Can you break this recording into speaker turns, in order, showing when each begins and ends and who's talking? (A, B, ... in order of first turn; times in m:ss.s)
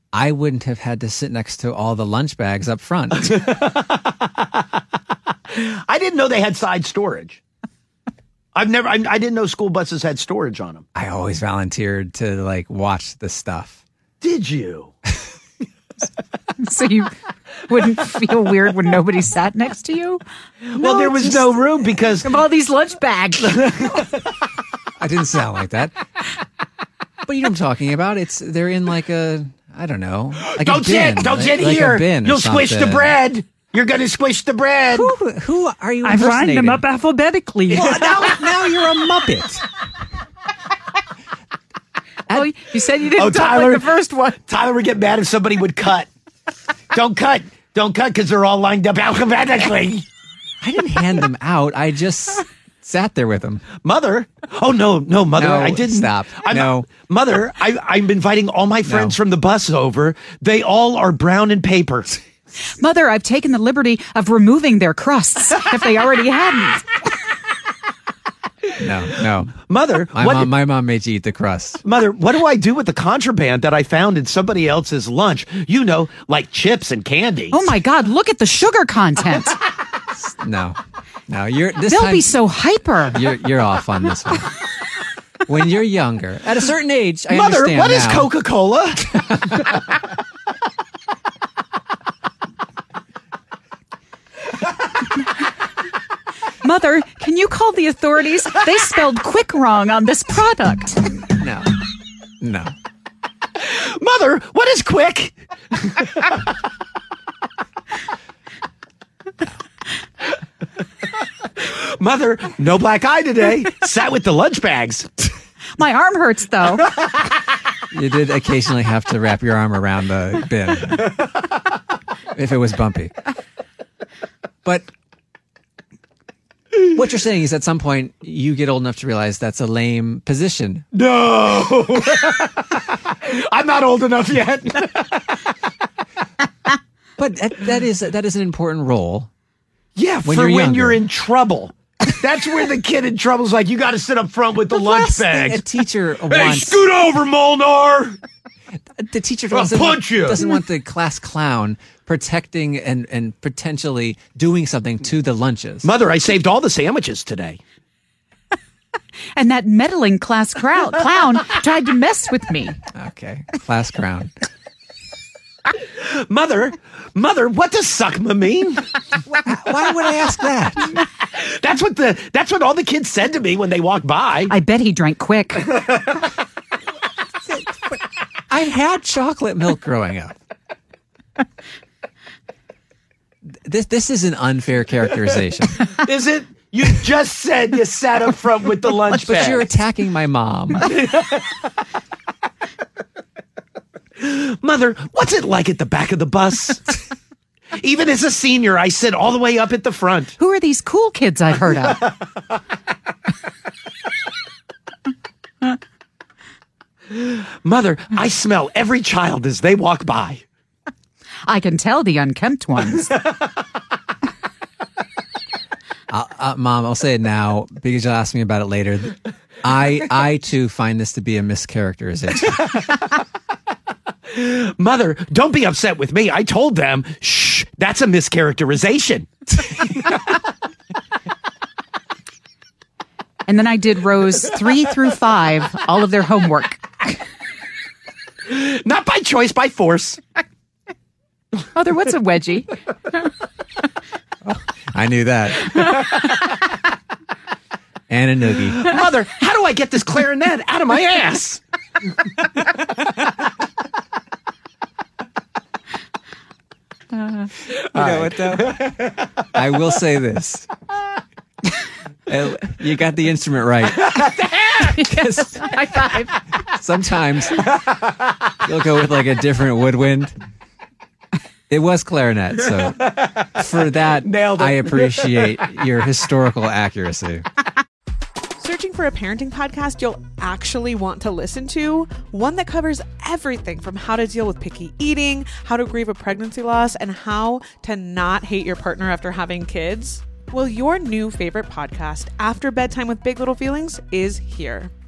0:00.1-0:03.4 A
0:03.2-0:04.4 B
0:05.5-0:07.4 B
0:08.5-0:10.8 B
0:10.9-0:13.8 A
0:14.2-0:14.9 B
0:16.6-0:20.2 C
0:20.6-0:22.4 B
0:20.8-0:21.6 C
0:22.2-0:23.8 C
0:23.6-0:24.0 B
0:25.0-0:26.0 A
0:27.2-0:33.2 A
0:30.4-0:35.1 B
0:34.9-0:36.9 A
0:36.0-0:37.8 C
0:37.7-0:38.4 B
0:37.7-0:39.6 A
0:42.3-0:44.4 C
0:43.1-0:46.1 B
0:46.9-0:50.0 B
0:50.6-0:53.6 A
0:53.8-1:02.2 B
0:55.4-0:56.9 A
0:58.8-0:59.2 A
1:02.7-1:07.0 C
1:08.8-1:09.6 A
1:09.7-1:10.5 B
1:10.1-1:11.8 A
1:11.8-1:17.6 B
1:17.5-1:19.6 C
1:20.1-1:20.8 A
1:21.3-1:22.3 A
1:21.9-1:23.2 C
1:23.1-1:24.5 A
1:25.4-1:28.3 A
1:27.3-1:29.0 B
1:29.0-1:29.6 A
1:36.6-1:41.0 C
1:41.3-1:41.8 A
1:42.4-1:42.7 A
1:43.6-1:46.3 B
1:51.6-1:55.3 B
1:55.8-1:56.9 C
1:57.9-2:01.1 A
2:02.3-2:03.1 A
2:04.6-2:04.9 A
2:06.8-2:10.8 A
2:10.9-2:15.4 B
2:17.2-2:19.3 A
2:20.0-2:25.6 B
2:20.2-2:21.0 A
2:24.7-2:26.8 A
2:26.3-2:28.2 B
2:29.0-2:35.9 A
2:29.5-2:30.5 B
2:35.8-2:37.6 B
2:39.4-2:42.8 C
2:42.9-2:44.3 A
2:46.0-2:48.8 B
2:49.2-2:50.9 A
2:51.3-2:54.5 B
2:54.5-2:55.7 C
2:58.5-3:00.4 A
3:03.6-3:05.8 A
3:06.0-3:09.6 B
3:09.1-3:10.9 A
3:10.9-3:11.5 B
3:14.2-3:17.0 B
3:17.8-3:20.3 B
3:20.4-3:22.1 C
3:27.1-3:30.4 B
3:31.5-3:33.1 C
3:36.1-3:42.6 A
3:44.3-3:49.8 B
3:53.5-3:57.2 C
3:58.5-4:00.2 B
4:01.7-4:02.7 C
4:04.4-4:05.9 A
4:08.1-4:08.9 A
4:08.8-4:11.6 B
4:17.9-4:20.7 A
4:18.0-4:18.3 B
4:22.3-4:24.2 A
4:24.1-4:25.0 B
4:25.0-4:25.8 A
4:26.6-4:27.7 A
4:28.6-4:30.4 A
4:31.7-4:37.4 A
4:32.9-4:33.4 B
4:34.2-4:35.6 B
4:38.6-4:54.9 D